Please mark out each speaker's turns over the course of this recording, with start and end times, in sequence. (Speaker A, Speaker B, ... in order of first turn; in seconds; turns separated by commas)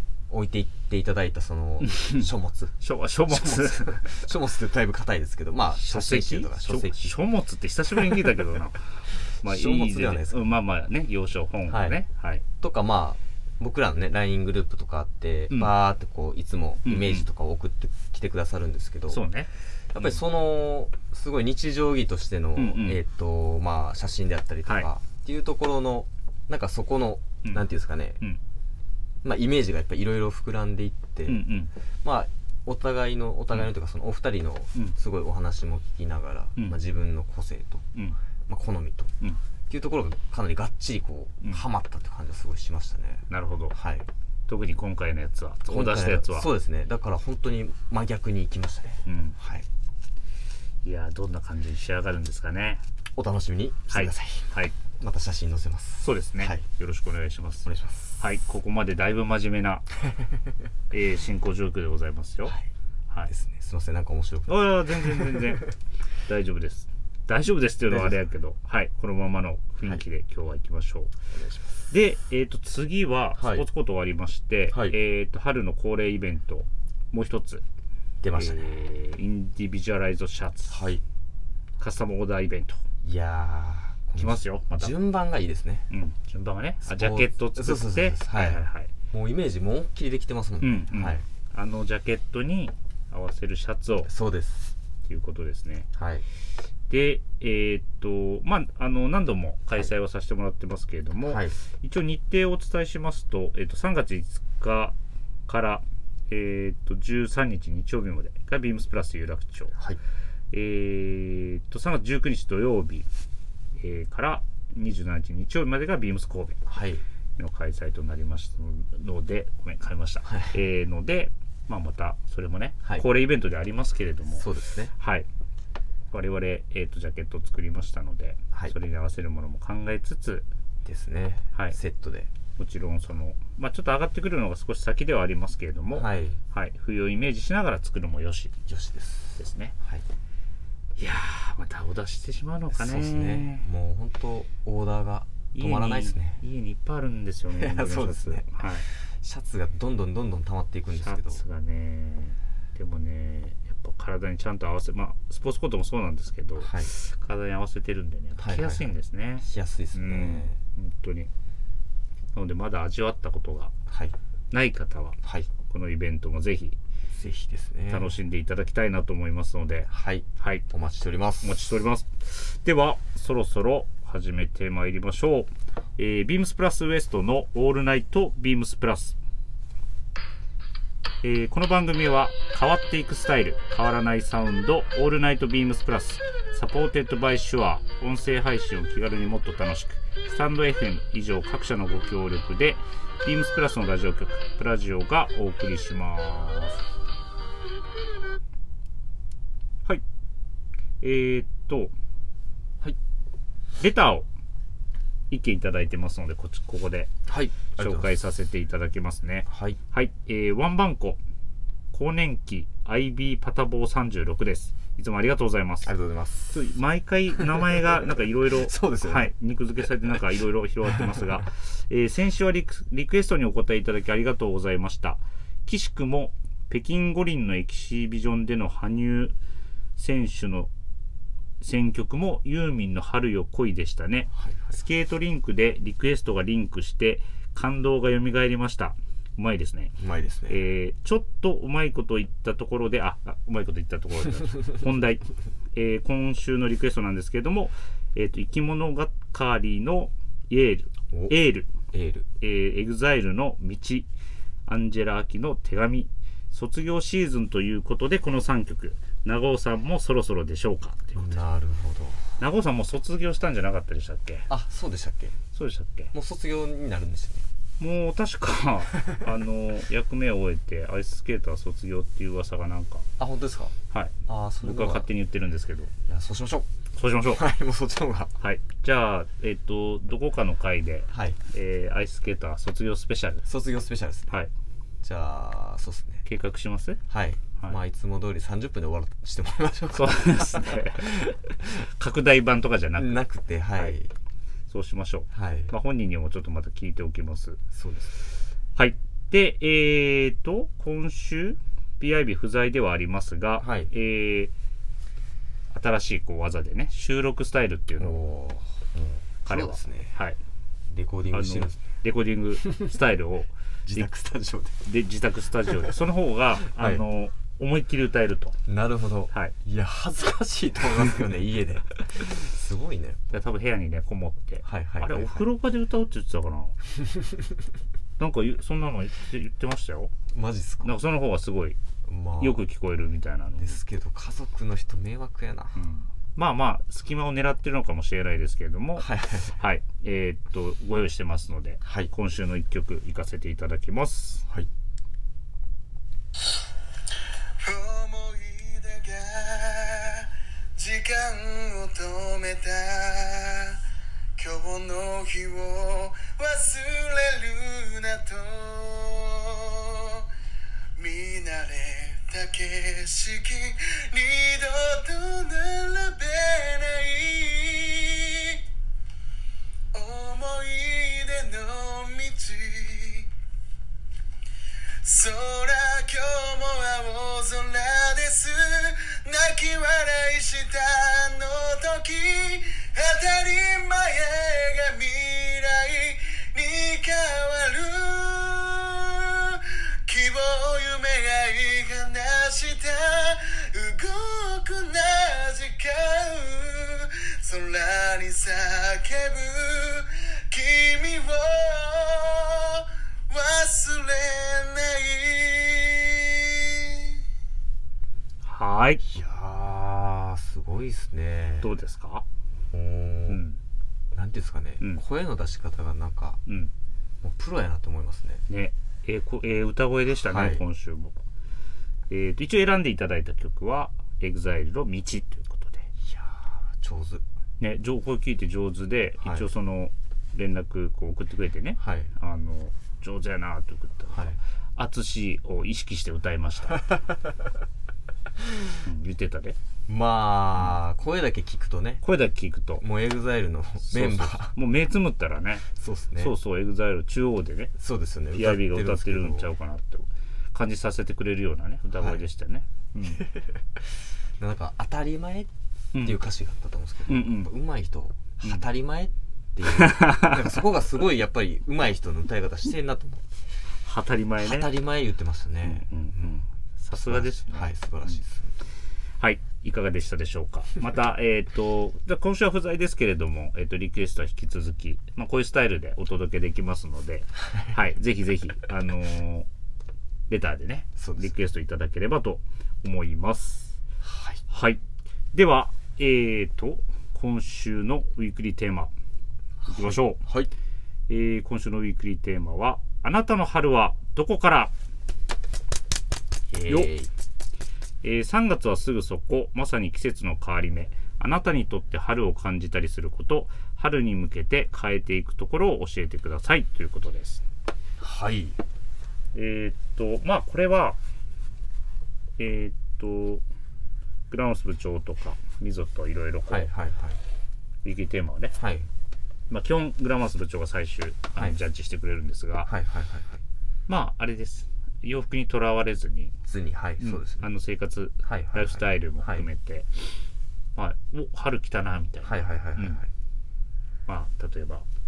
Speaker A: 0.3-2.7, Speaker B: 1.8-2.3, Speaker B: 2.8-4.3, Speaker A: 3.3-7.2, Speaker B: 5.7-12.4, Speaker A: 8.0-8.3, Speaker A: 9.4-10.5, Speaker A: 11.7-12.0, Speaker A: 12.6-19.2, Speaker B: 16.8-17.3, Speaker B: 19.1-20.2, Speaker A: 19.9-28.2, Speaker B: 22.6-23.0, Speaker A: 29.2-31.4, Speaker B: 31.3-31.7, Speaker A: 32.0-37.9, Speaker A: 38.5-39.1, Speaker A: 39.7-44.1, Speaker B: 43.3-43.7, Speaker B: 44.5-46.5, Speaker A: 45.6-49.7, Speaker B: 49.0-49.4, Speaker B: 50.8-52.8, Speaker A: 53.1-56.6, Speaker B: 53.9-54.7, Speaker B: 56.0-59.9, Speaker A: 57.6-58.2, Speaker B: 60.9-62.5, Speaker A: 63.3-65.5, Speaker B: 64.5-65.7, Speaker B: 66.2-71.1, Speaker A: 67.9-68.2, Speaker A: 71.3-71.7, Speaker B: 71.9-77.6, Speaker A: 73.4-73.7, Speaker A: 74.7-75.0, Speaker A: 78.2-78.7, Speaker B: 78.3-80.8, Speaker A: 80.7-81.0, Speaker B: 81.8-82.8, Speaker A: 83.0-85.9, Speaker B: 84.2-84.9, Speaker B: 85.9-88.9, Speaker A: 86.8-91.2, Speaker B: 90.6-94.1, Speaker A: 94.1-94.7, Speaker B: 95.0-95.9, Speaker A: 95.9-96.2, Speaker B: 96.9-105.0, Speaker A: 101.2-101.5, Speaker B: 105.5-109.8, Speaker B: 110.5-113.1, Speaker B: 113.8-116.6, Speaker A: 116.7-117.0, Speaker B: 117.4-125.3, Speaker A: 120.3-120.5, Speaker A: 124.3-124.9, Speaker B: 126.1-130.5, Speaker A: 130.8-132.3, Speaker B: 132.6-138.5, Speaker A: 135.9-136.4, Speaker A: 138.7-140.0, Speaker B: 139.4-139.7, Speaker B: 141.0-143.7, Speaker A: 142.7-146.4, Speaker B: 145.5-148.9, Speaker A: 147.5-151.4, Speaker B: 151.0-161.3, Speaker A: 156.6-156.9, Speaker A: 158.4-160.6, Speaker B: 162.3-163.7, Speaker A: 163.9-164.1, Speaker B: 164.5-166.8, Speaker A: 165.2-165.5, Speaker A: 167.1-168.1, Speaker B: 167.9-170.7, Speaker A: 169.9-171.6, Speaker B: 171.4-179.2, Speaker B: 181.2-196.8, Speaker B: 201.0-201.9, Speaker B: 203.8-204.3, Speaker B: 205.3-207.1, Speaker A: 207.3-208.1, Speaker B: 207.7-211.2, Speaker A: 209.5-209.8, Speaker B: 211.9-215.9, Speaker A: 215.8-216.6, Speaker B: 216.5-229.3, Speaker A: 217.4-219.3, Speaker A: 220.9-221.2, Speaker B: 230.0-230.7, Speaker B: 231.6-239.9, Speaker A: 234.3-234.8, Speaker A: 240.0-240.6, Speaker B: 240.5-245.2, Speaker B: 245.7-251.7, Speaker A: 251.9-252.2, Speaker B: 252.4-254.1, Speaker B: 254.7-261.4, Speaker A: 261.1-262.2, Speaker B: 262.4-264.5, Speaker A: 264.5-265.3, Speaker B: 265.5-266.1, Speaker A: 266.1-267.4, Speaker B: 267.8-273.1, Speaker A: 273.2-273.7, Speaker B: 273.9-275.9, Speaker A: 274.3-275.1, Speaker A: 276.1-276.7, Speaker B: 276.9-277.4, Speaker A: 277.2-278.3, Speaker B: 278.4-283.4, Speaker A: 281.1-281.4, Speaker A: 283.4-284.3, Speaker A: 285.0-286.2, Speaker B: 286.2-287.0, Speaker A: 287.1-291.2, Speaker B: 289.9-293.2, Speaker A: 293.0-294.1, Speaker B: 294.7-297.6, Speaker A: 295.3-295.7, Speaker A: 297.7-298.2, Speaker B: 298.8-304.5, Speaker A: 303.6-303.9, Speaker B: 305.7-308.2, Speaker A: 308.0-310.1, Speaker B: 309.4-310.4, Speaker A: 310.9-311.8, Speaker B: 311.3-314.1, Speaker A: 313.9-314.8, Speaker B: 314.8-318.6, Speaker A: 316.7-317.0, Speaker A: 318.7-323.2, Speaker B: 323.3-326.8, Speaker A: 324.6-325.4, Speaker B: 328.2-330.1, Speaker A: 330.3-330.9, Speaker B: 330.8-331.8, Speaker A: 332.1-332.6, Speaker B: 332.4-333.8, Speaker A: 333.6-335.8, Speaker B: 335.8-344.4, Speaker A: 339.0-339.5, Speaker A: 341.8-342.1, Speaker C: 347.6-353.8, Speaker C: 354.4-360.3, Speaker C: 361.0-368.6, Speaker C: 369.9-373.3, Speaker C: 375.0-407.2, Speaker B: 408.4-409.1, Speaker A: 409.1-411.7, Speaker B: 411.6-412.2, Speaker A: 412.7-413.4, Speaker B: 413.3-413.6, Speaker A: 414.1-416.4, Speaker B: 416.5-416.7, Speaker A: 417.2-418.4, Speaker B: 418.5-421.1, Speaker A: 420.2-420.6, Speaker B: 422.1-425.9, Speaker A: 426.0-427.2, Speaker B: 427.6-436.9, Speaker A: 429.2-429.4, Speaker A: 431.8-432.1, Speaker B: 438.8-439.6, Speaker A: 439.9-442.0, Speaker B: 442.0-442.8, Speaker A: 442.8-444.5, Speaker B: 443.9-445.7, Speaker A: 445.7-446.3, Speaker B: 446.2-447.7, Speaker A: 447.8-449.5, Speaker B: 448.3-453.3, Speaker A: 451.9-452.2, Speaker A: 453.2-463.3, Speaker B: 455.9-456.2, Speaker B: 457.1-457.5, Speaker B: 459.6-460.5, Speaker B: 463.8-464.7, Speaker A: 464.4-468.5, Speaker B: 465.6-468.2, Speaker B: 469.2-479.5, Speaker A: 477.5-477.8, Speaker B: 480.3-483.7, Speaker A: 481.0-481.3, Speaker A: 484.0-484.4, Speaker B: 484.5-484.8, Speaker B: 485.3-488.9, Speaker A: 489.6-490.5, Speaker B: 489.7-490.2, Speaker B: 491.1-494.7, Speaker A: 496.5-497.1, Speaker B: 496.7-496.9, Speaker B: 498.0-507.4, Speaker A: 508.0-508.6, Speaker B: 509.3-511.0, Speaker B: 512.4-513.4, Speaker B: 514.3-516.7, Speaker A: 516.5-517.2, Speaker B: 517.8-518.5, Speaker A: 518.6-518.9, Speaker B: 519.5-522.7, Speaker A: 522.6-523.4, Speaker B: 523.9-526.3, Speaker A: 526.5-527.5, Speaker B: 527.0-530.2, Speaker A: 528.2-529.4, Speaker B: 530.8-533.0, Speaker A: 532.2-533.1, Speaker B: 534.1-534.8